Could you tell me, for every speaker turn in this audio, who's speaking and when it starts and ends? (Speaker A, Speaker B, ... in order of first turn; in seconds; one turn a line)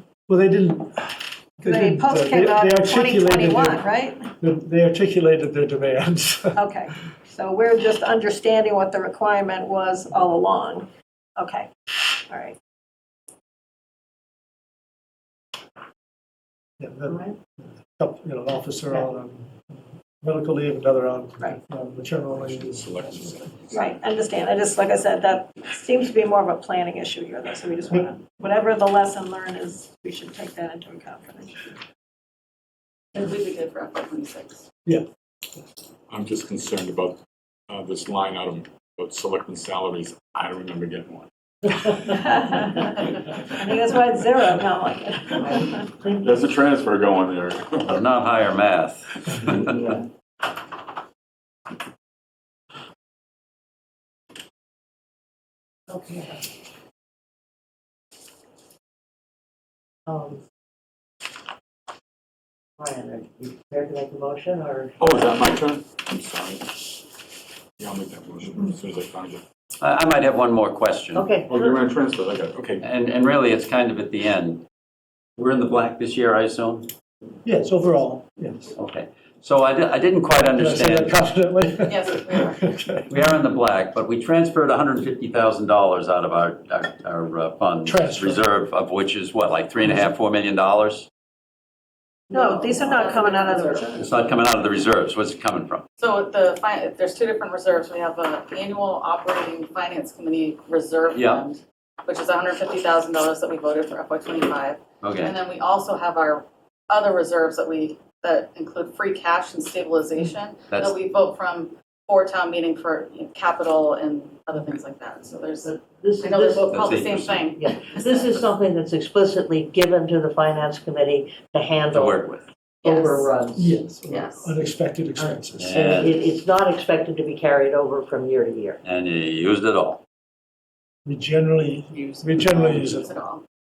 Speaker A: 0.3-3.8
Speaker B: 1.6-4.3
Speaker A: 4.4-6.6
Speaker B: 6.5-11.7
Speaker B: 12.3-12.6
Speaker A: 16.8-23.4
Speaker C: 17.1-17.4
Speaker D: 22.3-24.0
Speaker B: 23.7-31.7
Speaker E: 33.1-34.6
Speaker D: 36.1-37.2
Speaker D: 37.7-41.3
Speaker B: 42.0-43.0
Speaker B: 43.5-46.0
Speaker C: 45.4-46.3
Speaker D: 46.1-48.0
Speaker F: 47.8-50.0
Speaker C: 49.7-50.0
Speaker C: 55.9-56.4
Speaker C: 60.1-60.4
Speaker C: 62.8-65.0
Speaker D: 65.0-67.0
Speaker D: 67.8-69.4
Speaker F: 69.8-71.2
Speaker C: 71.1-71.8
Speaker D: 71.5-72.8
Speaker F: 72.8-74.6
Speaker F: 75.4-76.9
Speaker A: 77.4-78.8
Speaker F: 78.7-81.2
Speaker A: 80.5-83.1
Speaker E: 81.9-82.8
Speaker F: 83.1-91.1
Speaker A: 87.8-88.5
Speaker B: 92.3-94.1
Speaker E: 92.3-93.9
Speaker F: 94.0-95.8
Speaker E: 96.0-118.5
Speaker F: 101.1-101.4
Speaker F: 105.0-105.3
Speaker F: 110.7-111.0
Speaker C: 115.6-116.8
Speaker F: 116.7-117.5
Speaker C: 117.5-123.8
Speaker F: 121.9-122.4
Speaker E: 122.8-123.3
Speaker A: 123.5-126.3
Speaker E: 124.1-124.5
Speaker C: 125.2-128.8
Speaker F: 125.6-126.2
Speaker F: 128.8-130.0
Speaker A: 131.0-133.1
Speaker E: 131.9-133.4